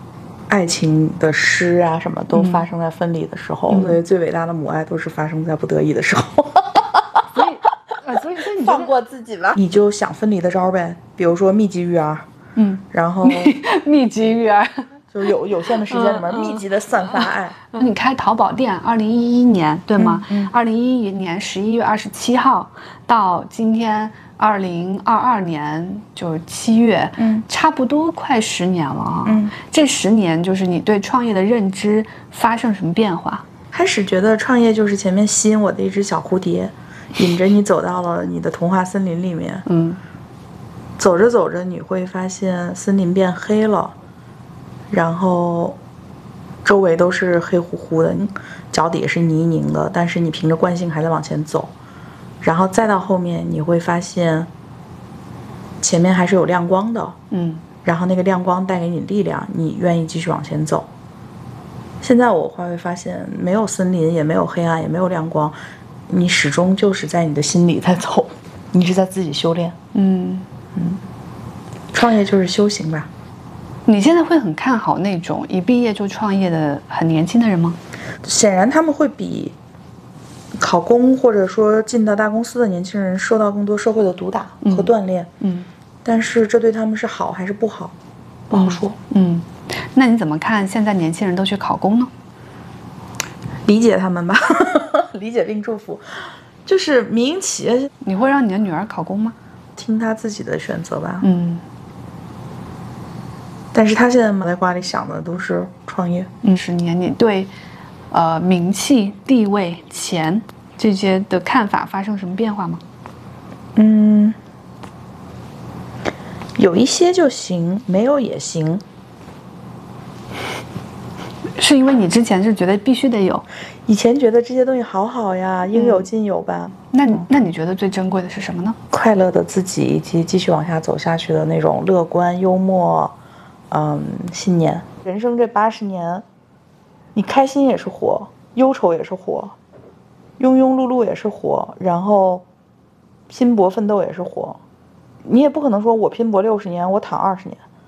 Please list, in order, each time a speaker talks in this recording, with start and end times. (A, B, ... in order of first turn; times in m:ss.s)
0:00.5-0:07.2 A
0:02.3-0:02.7 B
0:03.7-0:04.0 B
0:07.3-0:08.9 B
0:08.5-0:12.3 A
0:12.6-0:14.9 B
0:12.9-0:13.6 A
0:15.1-0:17.6 A
0:15.8-0:33.4 B
0:20.0-0:20.5 A
0:27.2-0:27.4 A
0:29.3-0:29.5 A
0:33.7-0:39.7 A
0:39.7-0:40.0 B
0:41.0-0:44.0 A
0:44.9-0:45.8 A
0:46.6-0:51.7 A
0:52.4-0:54.5 A
0:55.8-0:57.2 A
0:57.3-0:57.6 B
0:57.8-1:00.9 A
1:02.0-1:05.6 A
1:06.1-1:09.8 A
1:09.9-1:10.5 B
1:10.8-1:11.0 A
1:11.9-1:13.1 A
1:13.9-1:17.8 B
1:18.2-1:19.6 A
1:20.6-1:25.3 A
1:24.6-1:25.7 B
1:26.0-1:28.0 A
1:28.5-1:29.0 A
1:28.5-1:32.1 B
1:33.7-1:37.9 A
1:38.0-1:39.4 B
1:39.8-1:41.3 A
1:41.2-1:41.6 B
1:43.7-1:46.3 A
1:46.4-1:47.5 B
1:48.1-1:52.8 B
1:53.8-1:54.4 A
1:56.6-1:58.8 A
2:01.6-2:03.5 B
2:03.9-2:06.8 A
2:05.7-2:06.1 B
2:06.9-2:08.8 B
2:08.9-2:13.2 A
2:13.7-2:16.2 A
2:17.2-2:19.6 A
2:20.4-2:22.4 A
2:23.3-2:24.6 A
2:25.2-2:27.6 A